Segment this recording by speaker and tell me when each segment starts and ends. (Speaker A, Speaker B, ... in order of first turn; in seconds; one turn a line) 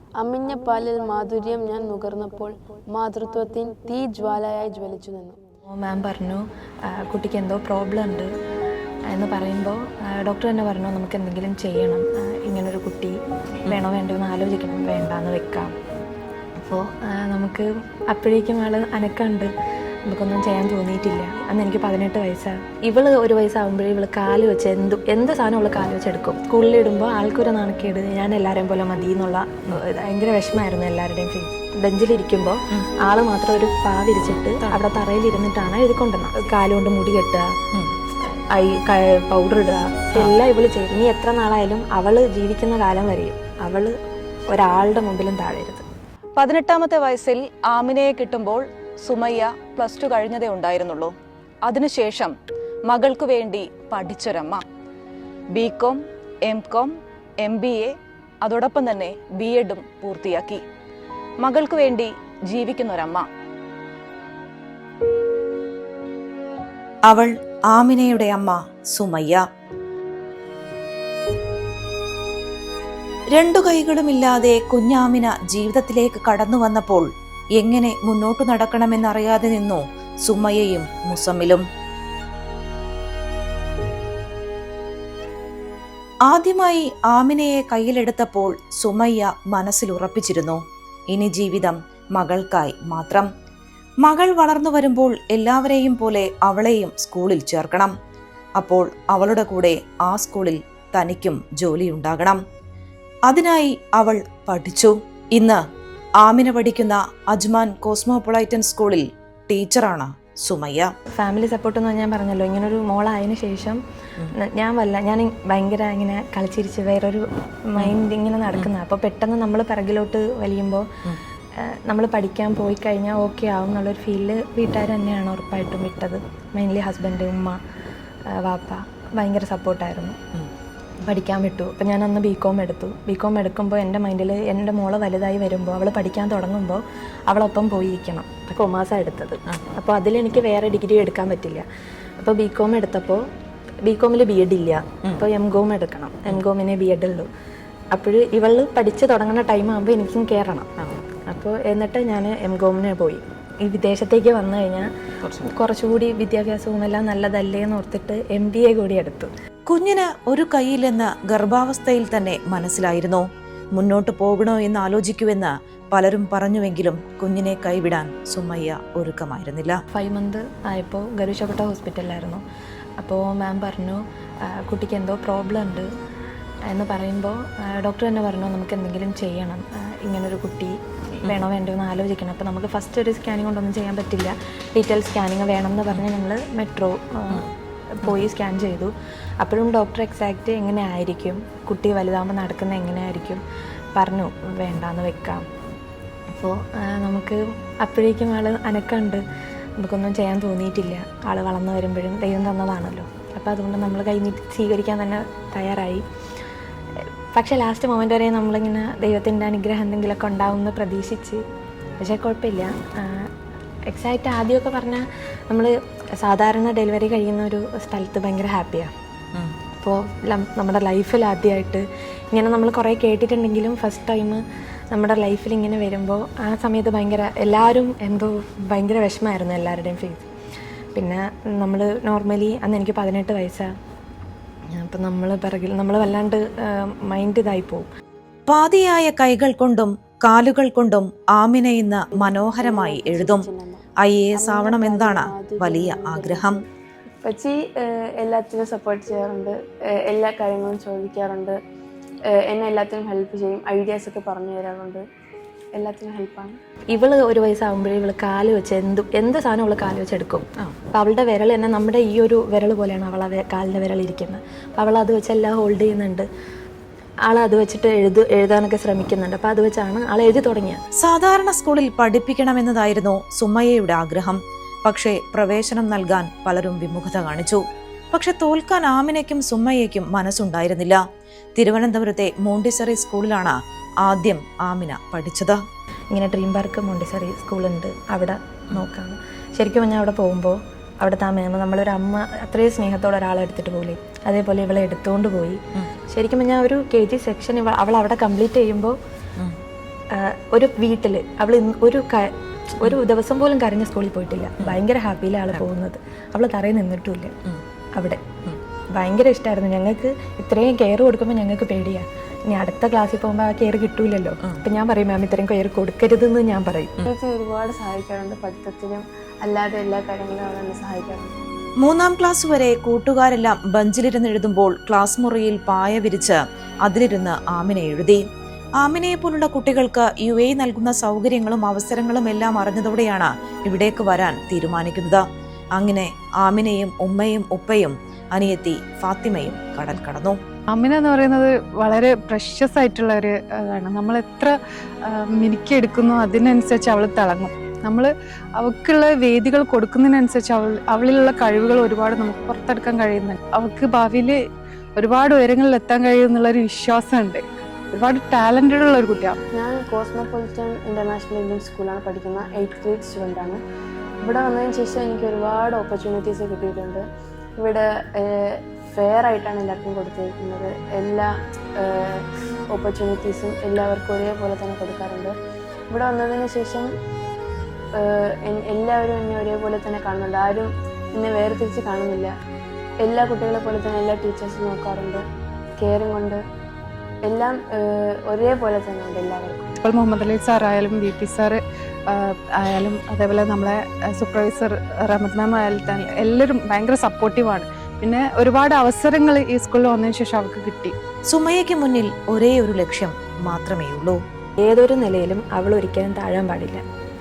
Speaker A: 0.2-5.4
Speaker B: 5.8-8.3
Speaker B: 9.1-15.7
Speaker B: 16.6-19.5
Speaker B: 20.1-37.5
Speaker B: 38.5-43.9
Speaker B: 44.5-45.9
Speaker C: 46.4-51.1
Speaker C: 51.7-52.4
Speaker C: 52.9-54.6
Speaker C: 55.5-60.6
Speaker C: 61.4-63.3
Speaker D: 67.1-69.4
Speaker D: 73.3-77.1
Speaker D: 77.6-81.6
Speaker D: 86.3-90.6
Speaker D: 91.1-93.3
Speaker D: 94.0-97.9
Speaker D: 98.6-102.4
Speaker D: 103.3-105.6
Speaker D: 106.2-110.9
Speaker B: 111.2-113.8
Speaker B: 114.3-120.9
Speaker B: 121.6-127.6
Speaker B: 128.4-130.2
Speaker B: 131.0-141.7
Speaker B: 142.2-143.2
Speaker B: 143.9-147.3
Speaker B: 147.9-150.7
Speaker B: 151.3-154.9
Speaker B: 155.4-159.3
Speaker D: 159.7-163.2
Speaker D: 163.8-169.8
Speaker B: 169.9-172.4
Speaker B: 173.0-175.9
Speaker B: 176.7-188.9
Speaker B: 189.4-193.4
Speaker B: 194.0-195.4
Speaker B: 196.4-199.2
Speaker B: 199.8-206.0
Speaker B: 207.3-211.4
Speaker B: 212.0-213.3
Speaker B: 213.9-218.9
Speaker B: 219.8-230.3
Speaker B: 230.9-233.7
Speaker B: 234.8-237.9
Speaker D: 238.5-243.4
Speaker A: 242.2-243.8
Speaker D: 244.0-246.6
Speaker A: 244.4-246.6
Speaker A: 247.2-251.6
Speaker A: 252.4-255.0
Speaker A: 255.8-256.5
Speaker B: 256.9-266.3
Speaker B: 267.3-270.8
Speaker D: 271.0-277.6
Speaker D: 278.1-281.0
Speaker D: 281.6-285.6
Speaker B: 286.1-299.0
Speaker B: 300.1-307.3
Speaker B: 308.0-308.4
Speaker B: 309.0-317.1
Speaker A: 317.0-321.3
Speaker D: 321.8-328.2
Speaker D: 328.8-335.2
Speaker D: 335.8-340.4
Speaker E: 340.7-344.5
Speaker E: 345.1-354.4
Speaker E: 355.0-359.4
Speaker A: 359.5-363.6
Speaker A: 364.2-367.0
Speaker A: 367.6-375.3
Speaker A: 375.9-376.9
Speaker A: 378.0-382.3
Speaker A: 383.0-385.2
Speaker A: 385.8-386.4
Speaker A: 387.2-389.7
Speaker E: 389.8-400.9
Speaker D: 401.3-404.2
Speaker B: 404.6-406.8